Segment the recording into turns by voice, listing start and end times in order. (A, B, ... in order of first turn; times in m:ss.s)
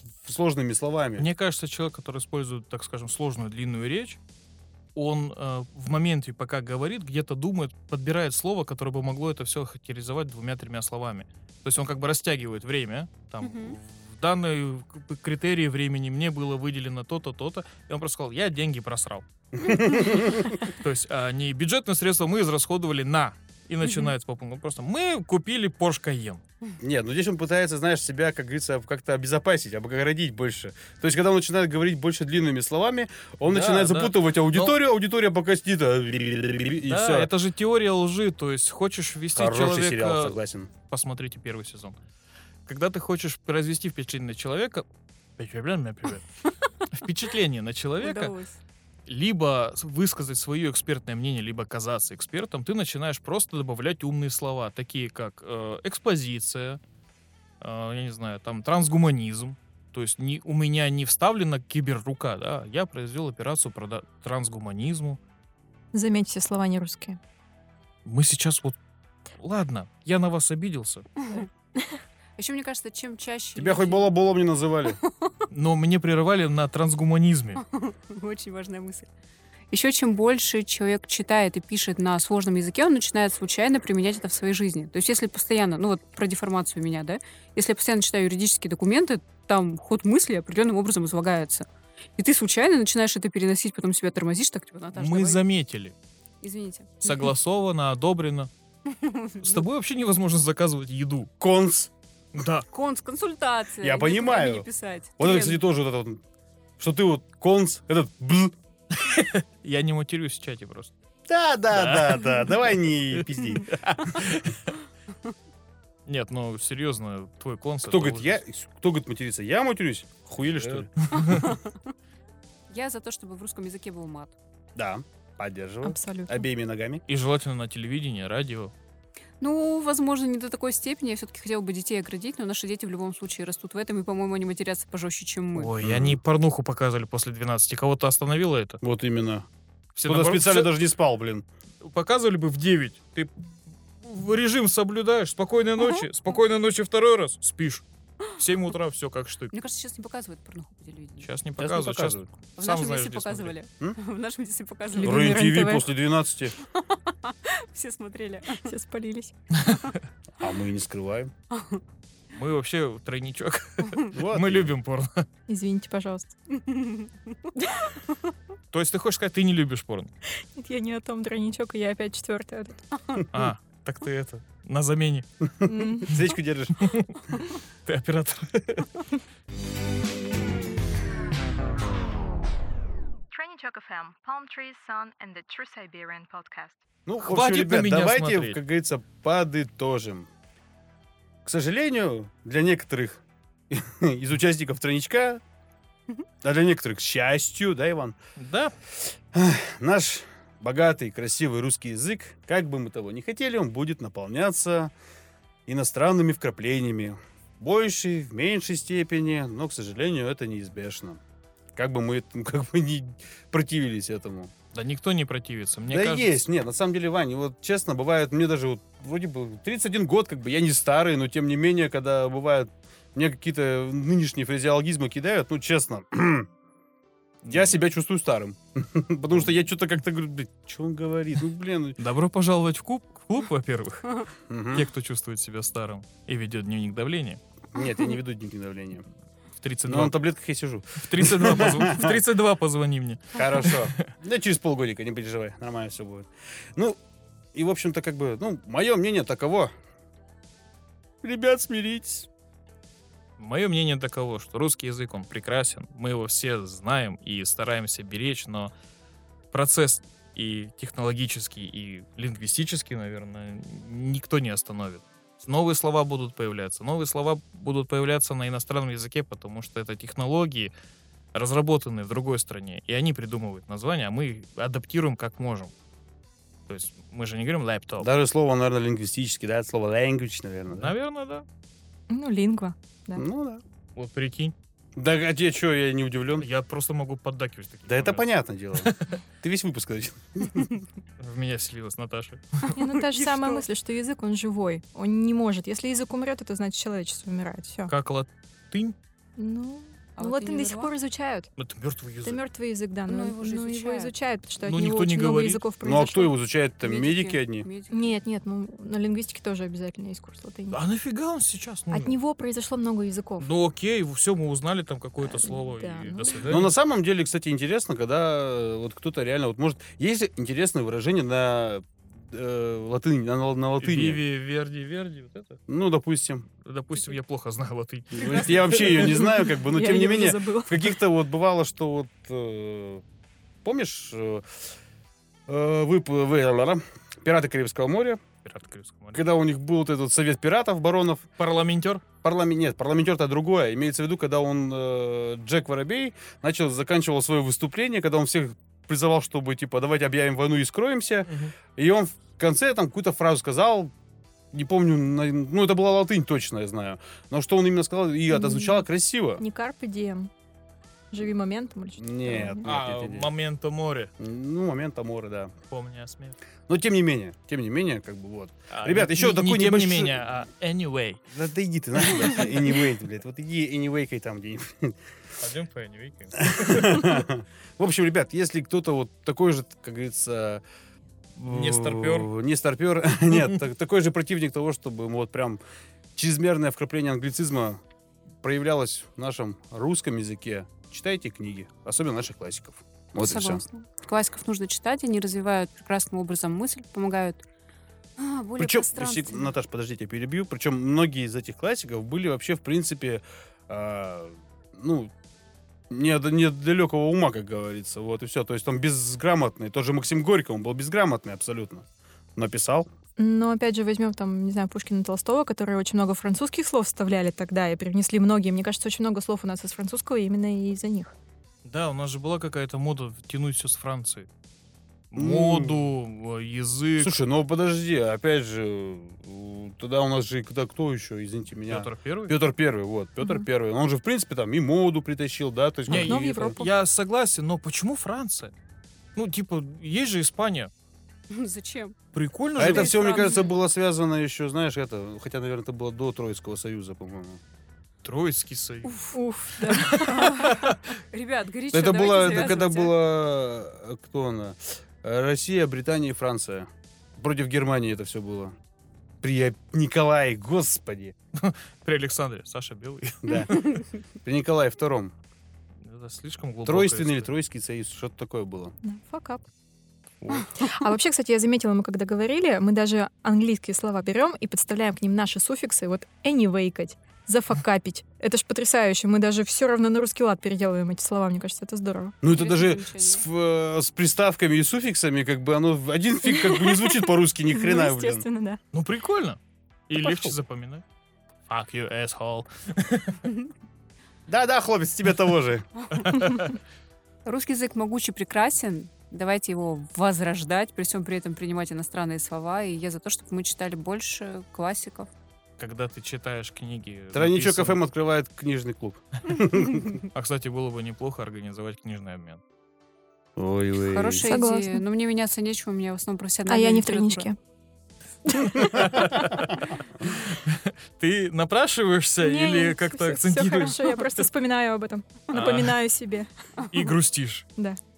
0:00.2-0:01.3 A
0:01.2-0:04.2 B
0:05.0-0:26.4 B
0:13.4-0:13.8 C
0:19.6-0:20.5 A
0:26.8-0:37.3 A
0:33.5-0:34.8 B
0:36.8-0:42.0 B
0:39.3-0:40.7 A
0:42.6-0:44.8 B
0:45.4-0:46.3 B
0:46.9-0:48.3 B
0:48.0-0:48.6 C
0:49.0-0:56.8 B
0:57.6-1:05.2 B
1:05.9-1:07.2 D
1:08.0-1:08.8 B
1:09.4-1:11.1 B
1:11.3-1:11.9 D
1:12.4-1:14.1 C
1:13.5-1:15.0 A
1:15.1-1:15.4 C
1:15.5-1:17.6 B
1:17.6-1:19.1 C
1:19.7-1:35.4 C
1:34.9-1:35.9 B
1:36.4-1:37.3 C
1:37.0-1:38.5 B
1:38.9-1:39.6 C
1:39.4-1:41.3 B
1:41.4-1:41.9 A
1:42.3-1:42.7 B
1:42.7-1:45.6 C
1:43.8-1:44.7 A
1:45.2-1:46.2 A
1:46.8-1:48.5 A
1:48.9-1:50.9 B
1:51.3-1:53.7 A
1:51.7-1:54.7 B
1:56.1-1:58.4 B
1:57.9-2:00.9 A
2:00.4-2:01.5 B
2:01.2-2:01.8 C
2:02.7-2:04.3 C
2:04.8-2:07.0 A
2:05.8-2:06.5 D
2:07.1-2:08.7 B
2:09.4-2:15.7 C
2:15.5-2:18.8 B
2:15.8-2:16.2 A
2:18.8-2:19.4 A
2:19.9-2:20.7 B
2:20.0-2:21.4 A
2:21.8-2:23.3 B
2:24.0-2:29.5 B
2:29.5-2:31.3 C
2:31.2-2:33.5 B
2:31.6-2:32.3 A
2:32.6-2:35.3 C
2:34.9-2:35.9 D
2:35.0-2:36.5 A
2:36.6-2:38.7 C
2:38.6-2:39.3 D
2:39.6-2:39.9 B
2:40.4-2:41.3 A
2:41.5-2:41.8 C
2:42.3-2:45.2 B
2:43.8-2:44.1 C
2:44.1-2:44.7 A
2:45.5-2:46.3 D
2:46.5-2:48.1 C
2:48.7-2:50.1 B
2:50.6-2:52.8 D
2:53.3-2:55.2 B
2:55.6-2:56.9 A
2:55.6-2:56.1 D
2:56.1-2:57.2 B
2:57.8-2:59.0 B
3:03.3-3:06.8 E
3:07.0-3:10.3 A
3:07.2-3:08.6 B
3:11.4-3:15.4 A
3:16.4-3:18.1 A
3:18.4-3:18.7 B
3:19.3-3:24.9 A
3:25.7-3:31.2 A
3:31.7-3:34.5 A
3:34.7-3:36.4 B
3:35.9-3:46.5 A
3:47.4-3:47.8 B
3:47.5-3:52.0 A
3:52.0-3:57.4 B
3:54.5-3:54.9 A
3:57.7-3:59.0 A
3:59.6-4:00.2 B
3:59.8-4:02.2 A
4:01.0-4:04.1 B
4:03.3-4:07.0 A
4:07.5-4:09.7 A
4:11.2-4:12.3 A
4:13.4-4:18.7 B
4:19.5-4:30.7 B
4:31.3-4:35.7 B
4:36.7-4:38.1 B
4:38.0-4:40.9 A
4:40.7-4:41.4 B
4:42.1-4:43.2 D
4:43.2-4:43.6 A
4:44.0-4:44.5 B
4:45.0-4:46.4 A
4:46.4-4:49.2 B
4:47.9-4:50.7 A
4:51.2-4:52.7 B
4:52.6-4:53.6 C
4:52.7-4:57.9 D
4:57.9-4:59.0 B
4:59.4-5:01.5 D
5:00.2-5:00.9 C
5:01.6-5:02.4 B
5:02.2-5:06.3 D
5:03.1-5:04.1 C
5:04.6-5:05.6 B
5:05.8-5:07.7 A
5:06.8-5:08.1 C
5:07.9-5:10.8 D
5:10.7-5:12.2 B
5:11.9-5:13.5 D
5:13.4-5:16.7 B
5:15.2-5:16.4 D
5:16.4-5:24.2 A
5:23.8-5:25.6 B
5:25.7-5:26.4 A
5:26.6-5:29.3 B
5:28.1-5:33.0 A
5:29.0-5:30.9 D
5:33.6-5:34.6 A
5:35.5-5:38.2 A
5:38.4-5:39.2 B
5:39.1-5:41.3 A
5:41.4-5:42.0 B
5:42.2-5:53.9 A
5:51.3-5:51.5 B
5:54.5-5:59.4 A
5:58.3-5:58.8 D
5:59.4-6:00.3 D
6:01.1-6:02.7 D
6:02.0-6:03.3 A
6:02.6-6:04.1 B
6:04.2-6:05.5 A
6:05.7-6:06.4 B
6:06.7-6:10.3 A
6:08.7-6:11.2 B
6:11.3-6:15.0 A
6:12.1-6:12.4 B
6:15.4-6:17.2 B
6:16.4-6:20.6 A
6:21.4-6:25.6 A
6:21.4-6:22.3 B
6:26.2-6:27.8 A
6:28.4-6:33.6 A
6:33.2-6:37.4 C
6:38.2-6:39.5 C
6:38.6-6:45.1 A
6:45.9-6:52.9 A
6:53.2-7:01.1 D
7:01.6-7:04.3 B
7:05.1-7:07.1 B
7:05.1-7:05.9 A
7:07.0-7:16.6 A
7:11.7-7:12.3 B
7:13.2-7:13.4 D
7:15.9-7:16.7 D
7:15.9-7:18.5 B
7:19.2-7:20.7 B
7:21.3-7:22.0 C
7:22.1-7:23.3 B
7:22.6-7:27.4 A
7:22.6-7:23.5 C
7:28.0-7:30.8 B
7:29.1-7:30.5 D
7:30.0-7:32.9 C
7:31.7-7:38.6 A
7:39.2-7:41.1 A
7:41.4-7:43.8 B
7:43.2-7:43.6 A
7:44.2-7:45.1 A
7:45.8-7:47.3 B
7:46.6-7:48.7 A
7:48.8-7:49.4 D
7:50.2-7:50.5 B
7:50.6-8:02.2 D
8:02.2-8:08.2 A
8:02.3-8:03.2 C
8:06.2-8:08.6 D
8:08.7-8:10.8 B
8:10.0-8:10.4 A
8:11.5-8:13.2 B
8:14.3-8:15.7 A
8:16.0-8:16.6 B
8:17.2-8:25.1 C
8:25.6-8:27.8 B
8:27.1-8:29.9 A
8:30.1-8:32.4 B
8:33.4-8:34.3 A
8:33.8-8:37.3 C
8:34.2-8:34.8 D
8:36.5-8:37.4 D
8:38.4-8:38.8 D
8:38.5-8:44.2 B
8:42.2-8:46.3 D
8:45.3-8:45.8 B
8:46.6-8:47.4 B